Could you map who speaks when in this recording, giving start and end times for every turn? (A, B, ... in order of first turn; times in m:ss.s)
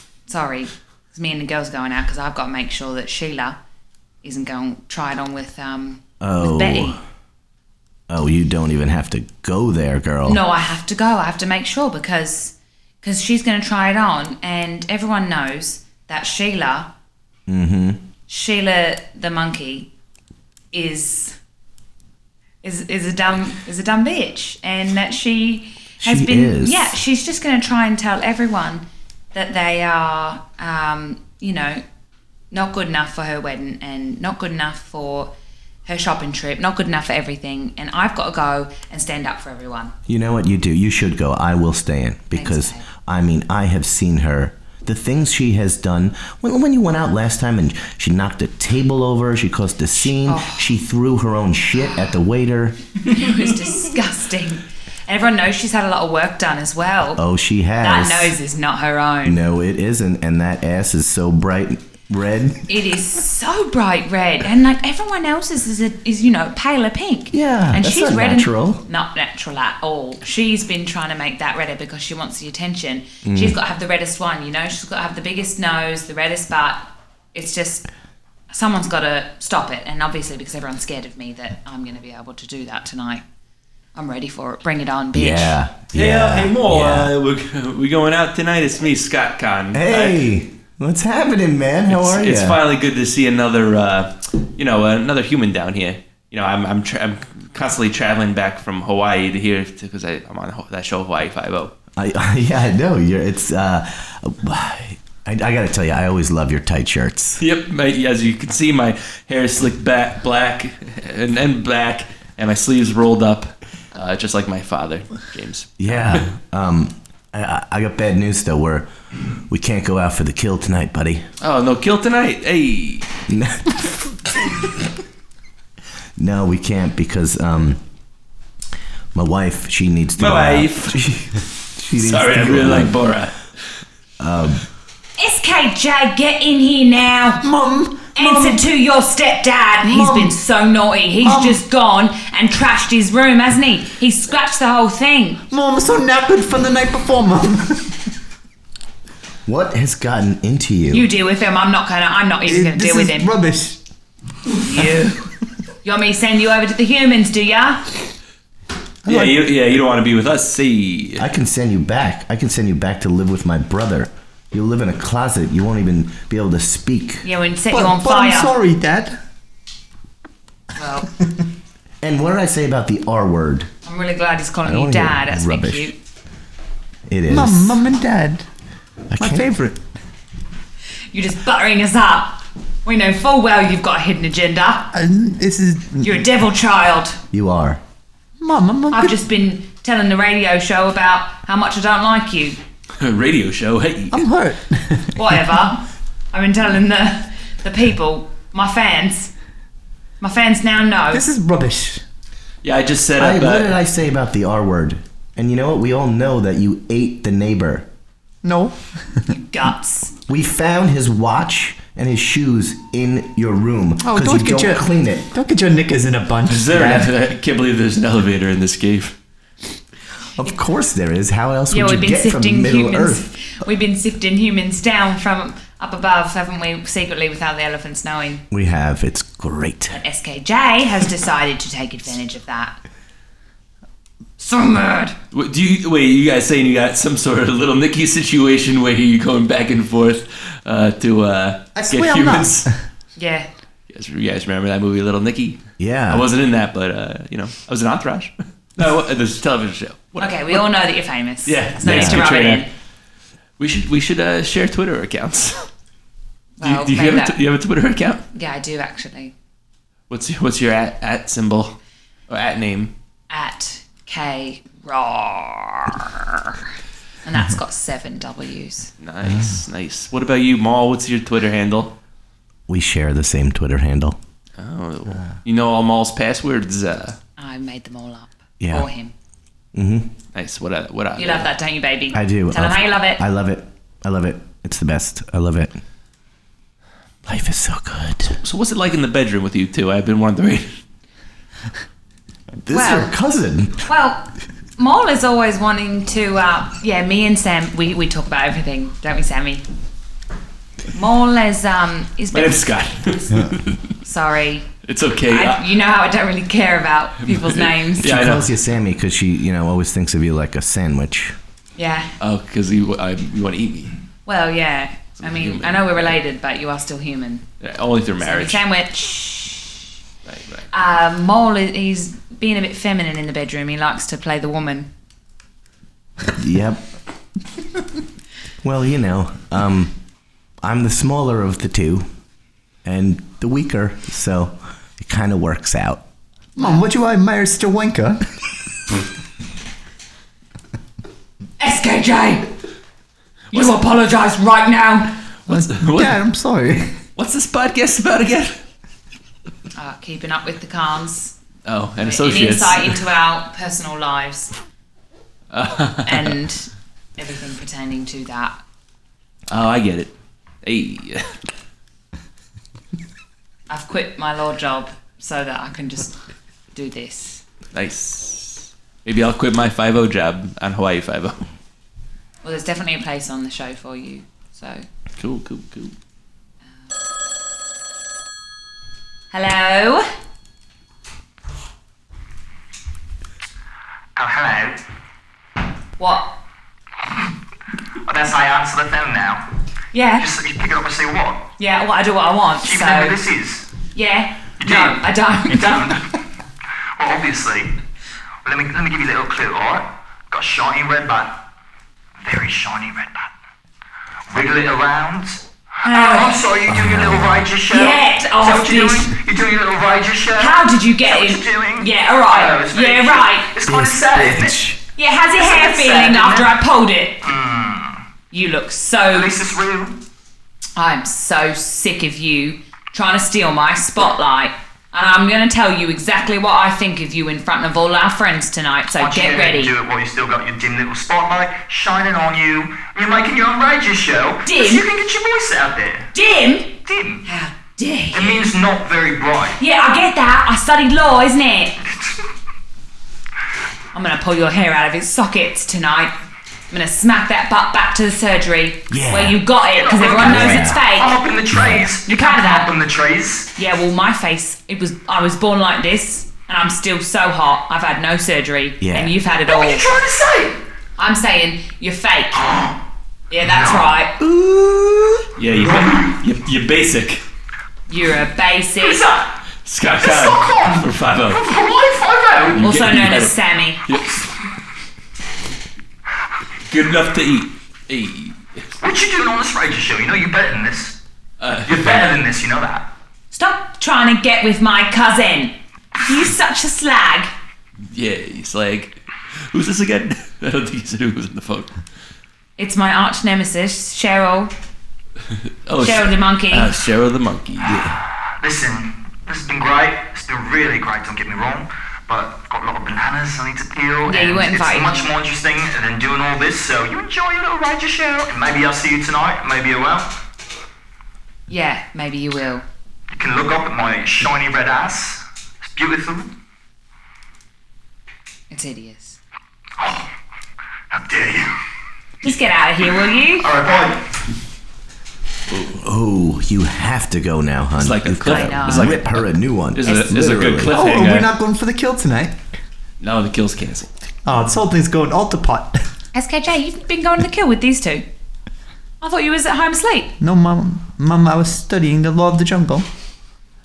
0:00.3-0:03.6 A
0:04.2-0:07.0 A
0:06.2-0:07.0 B
0:08.1-0:10.4 B
0:10.2-0:16.9 A
0:17.5-0:18.0 B
0:18.3-0:19.9 A
0:20.7-0:21.4 A
0:22.6-0:31.8 A
0:26.0-0:27.0 B
0:32.5-0:35.3 A
0:35.8-0:39.9 A
0:40.1-0:52.9 B
0:42.3-0:42.8 A
0:50.2-0:50.6 A
0:53.0-0:57.2 A
0:57.2-0:58.4 B
0:57.8-0:59.4 A
0:59.2-1:02.7 B
1:02.7-1:17.9 A
1:07.3-1:08.8 B
1:13.2-1:13.6 B
1:18.5-1:23.2 A
1:24.0-1:25.6 A
1:25.1-1:27.1 B
1:25.9-1:30.2 C
1:29.7-1:32.6 B
1:31.9-1:41.7 C
1:42.0-1:47.4 B
1:47.4-1:56.2 C
1:55.8-1:58.9 B
1:59.5-2:01.2 B
2:01.4-2:03.1 C
2:03.3-2:04.5 B
2:06.2-2:07.8 B
2:09.1-2:13.0 B
2:10.2-2:11.2 C
2:11.9-2:13.5 C
2:14.2-2:14.6 B
2:15.2-2:17.5 A
2:17.4-2:18.6 D
2:18.1-2:25.4 A
2:19.8-2:20.4 D
2:21.2-2:21.6 D
2:25.5-2:28.1 D
2:29.5-2:31.1 B
2:30.9-2:33.3 A
2:32.5-2:33.8 D
2:34.6-2:35.2 A
2:35.8-2:37.9 A
2:39.0-2:39.4 D
2:39.0-2:41.2 C
2:41.2-2:47.2 B
2:47.2-2:48.6 A
2:47.7-2:49.2 D
2:50.8-2:51.1 A
2:52.0-2:53.7 B
2:53.8-2:56.0 A
2:54.6-2:55.9 B
2:57.1-2:57.8 B
2:57.3-2:58.5 D
2:59.1-2:59.5 B
2:59.2-2:59.8 D
3:01.1-3:04.9 A
3:04.9-3:06.1 D
3:06.0-3:07.2 A
3:07.3-3:07.8 B
3:08.4-3:09.1 D
3:08.9-3:12.6 A
3:13.0-3:14.3 C
3:14.1-3:15.2 D
3:15.2-3:19.3 A
3:20.2-3:21.3 A
3:21.1-3:22.0 D
3:22.6-3:23.8 C
3:23.2-3:27.9 B
3:28.4-3:29.2 D
3:29.3-3:30.1 A
3:30.3-3:35.3 B
3:34.0-3:37.1 D
3:36.5-3:39.2 C
3:40.4-3:43.3 B
3:41.7-3:48.4 A
3:48.5-3:50.0 B
3:49.9-3:52.8 A
3:54.4-3:55.2 A
3:55.3-4:02.7 C
4:01.8-4:02.8 D
4:03.2-4:03.5 A
4:03.9-4:10.6 C
4:05.8-4:06.3 B
4:10.2-4:12.7 A
4:11.4-4:12.6 C
4:11.8-4:12.2 B
4:13.6-4:15.7 C
4:16.6-4:17.4 A
4:16.6-4:18.2 C
4:18.3-4:19.3 A
4:20.1-4:21.8 C
4:22.3-4:22.9 C
4:23.3-4:26.6 A
4:27.2-4:28.9 A
4:29.0-4:31.9 C
4:32.7-4:34.2 B
4:34.6-4:37.2 C
4:37.4-4:39.1 A
4:38.6-4:38.9 B
4:39.7-4:40.2 B
4:40.3-4:41.5 C
4:41.2-4:43.2 A
4:42.1-4:45.8 B
4:47.2-4:48.4 B
4:48.4-4:50.8 C
4:52.6-4:53.9 B
4:52.7-4:53.1 A
4:53.9-4:59.6 A
5:00.9-5:03.5 A
5:02.3-5:03.8 C
5:04.0-5:04.7 A
5:04.8-5:05.6 C
5:05.3-5:08.1 A
5:07.2-5:08.5 C
5:08.0-5:11.4 B
5:11.8-5:12.1 A
5:12.2-5:14.0 C
5:14.3-5:17.4 A
5:15.2-5:16.1 C
5:17.6-5:18.6 C
5:18.2-5:19.8 A
5:20.2-5:20.7 C
5:20.7-5:24.9 A
5:26.3-5:26.9 B
5:28.6-5:30.0 B
5:30.6-5:32.1 B
5:32.8-5:36.0 B
5:36.6-5:38.2 D
5:36.6-5:36.8 A
5:41.6-5:42.5 A
5:43.5-5:45.1 A
5:45.5-5:47.0 D
5:45.5-5:46.3 C
5:47.2-5:48.6 C
5:49.8-5:51.4 A
5:51.6-5:53.0 C
5:52.0-5:54.5 A
5:55.5-5:56.4 C
5:56.1-5:58.6 A
5:59.5-6:01.3 C
6:03.7-6:06.2 A
6:06.7-6:07.4 A
6:07.7-6:11.4 C
6:12.4-6:14.8 A
6:15.2-6:15.9 C
6:19.3-6:20.0 A
6:24.2-6:24.8 E
6:26.0-6:26.4 A
6:28.0-6:29.5 E
6:29.9-6:30.3 A
6:30.2-6:31.4 E
6:31.6-6:33.2 A
6:32.6-6:33.7 E
6:33.9-6:35.9 A
6:34.6-6:36.2 E
6:37.0-6:37.8 E
6:38.4-6:41.4 E
6:42.2-6:43.3 E
6:44.3-6:54.7 E
6:45.8-6:46.5 A
6:46.7-6:47.3 B
6:47.7-6:49.2 A
6:50.4-6:53.5 A
6:53.6-6:54.8 B
6:55.0-6:57.2 A
6:55.4-6:56.5 E
6:57.2-6:58.0 E
6:58.3-6:59.4 A
6:59.1-7:00.0 E
7:00.8-7:09.8 A
7:08.9-7:16.1 E
7:14.4-7:14.9 A
7:16.1-7:18.5 A
7:16.8-7:17.2 E
7:18.1-7:19.6 E
7:19.6-7:21.8 A
7:23.9-7:26.1 A
7:26.7-7:31.2 A
7:28.9-7:29.4 B
7:29.7-7:33.5 E
7:30.2-7:30.8 B
7:31.5-7:31.9 B
7:32.1-7:32.7 A
7:33.6-7:39.9 A
7:38.8-7:39.2 B
7:39.5-7:40.6 E
7:41.0-7:42.5 A
7:42.4-7:42.8 E
7:43.3-7:44.2 A
7:43.4-7:43.9 E
7:45.4-7:47.2 C
7:45.6-7:46.2 E
7:47.9-7:49.0 A
7:49.6-7:51.5 C
7:49.9-7:52.6 E
7:52.4-7:54.2 C
7:52.6-7:53.8 A
7:56.7-7:58.7 C
7:58.8-8:01.0 E
8:01.4-8:02.2 C
8:01.6-8:02.9 E
8:03.3-8:07.3 A
8:07.9-8:09.0 C
8:09.5-8:11.8 C
8:12.6-8:14.5 A
8:15.7-8:17.9 C
8:15.8-8:16.7 A
8:17.7-8:30.1 E
8:24.0-8:25.1 A
8:31.5-8:32.6 A
8:33.1-8:36.3 E
8:38.5-8:39.2 A
8:39.8-8:40.1 E
8:40.9-8:41.5 E
8:42.2-8:43.5 A
8:43.4-8:44.1 E
8:45.6-8:50.7 B
8:47.8-8:51.3 C
8:48.2-8:49.0 A
8:50.7-8:52.6 D
8:53.0-8:53.9 C
8:54.2-8:55.8 D
8:56.1-8:58.0 A
8:59.0-9:00.1 A
9:00.2-9:02.9 D